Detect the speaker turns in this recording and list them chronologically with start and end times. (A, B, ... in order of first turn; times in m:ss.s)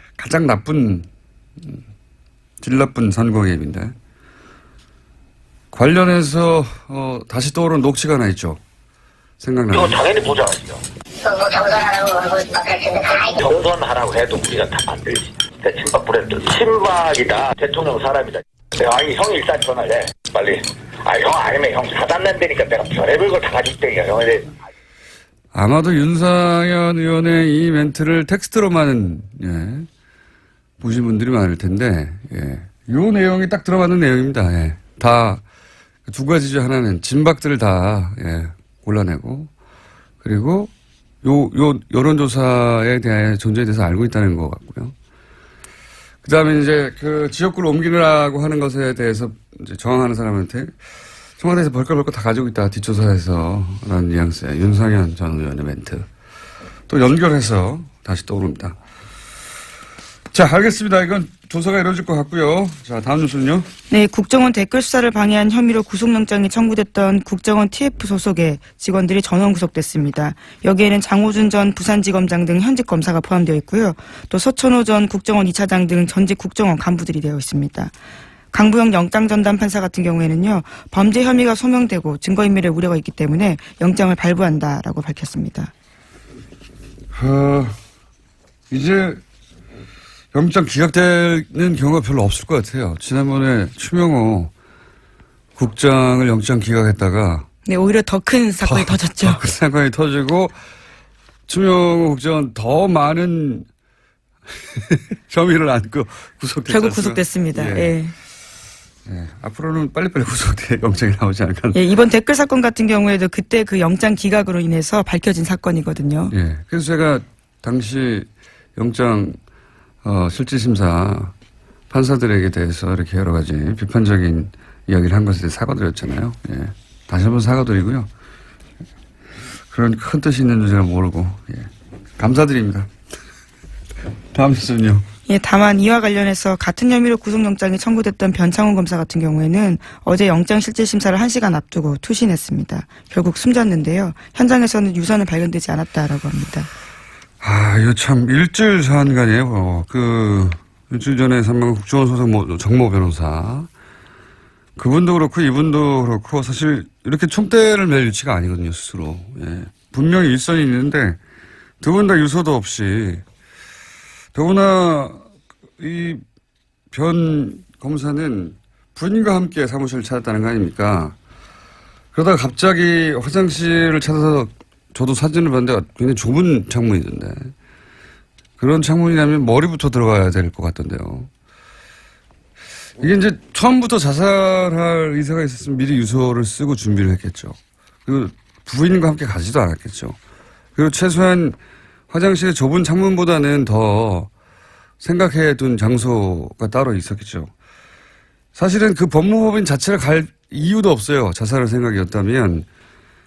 0:00.2-0:01.1 A
0:02.6-0:03.9 A
0:05.7-0:08.6 A
0:09.4-0:10.0 A
0:09.7-0:10.8 B
0:11.2-0:13.4 C
0:13.1-0:24.5 B
0:25.5-0:29.9 A
0:30.8-0:35.4 A
0:36.1-0:39.5 A
0:40.2-0:40.7 A
0:41.2-0:45.0 A
0:46.2-0:50.7 A
0:51.4-0:56.1 A
0:56.9-0:58.8 A
1:00.3-1:03.7 A
1:03.9-1:17.9 D
1:18.5-1:25.7 D
1:27.1-1:27.8 A
1:28.7-1:29.2 A
1:30.3-1:34.5 A
1:35.6-1:37.5 A
1:37.6-1:39.4 D
1:38.6-1:40.6 A
1:41.5-1:43.7 A
1:44.7-1:48.0 A
1:46.7-1:48.1 D
1:49.1-1:51.8 A
1:51.7-1:56.3 D
1:56.3-1:59.4 A
2:00.0-2:01.3 A
2:01.9-2:08.1 A
2:09.7-2:12.9 A
2:14.3-2:15.1 A
2:15.3-2:26.7 D
2:27.4-2:33.7 A
2:34.8-2:41.2 A
2:41.8-2:43.2 A
2:44.4-2:45.2 A
2:45.8-2:46.2 A
2:46.9-2:51.2 A
2:52.1-2:57.5 A
2:58.6-3:01.3 A
3:03.0-3:10.2 A
3:10.8-3:11.6 A
3:12.1-3:14.3 A
3:15.0-3:17.5 A
3:18.6-3:22.7 A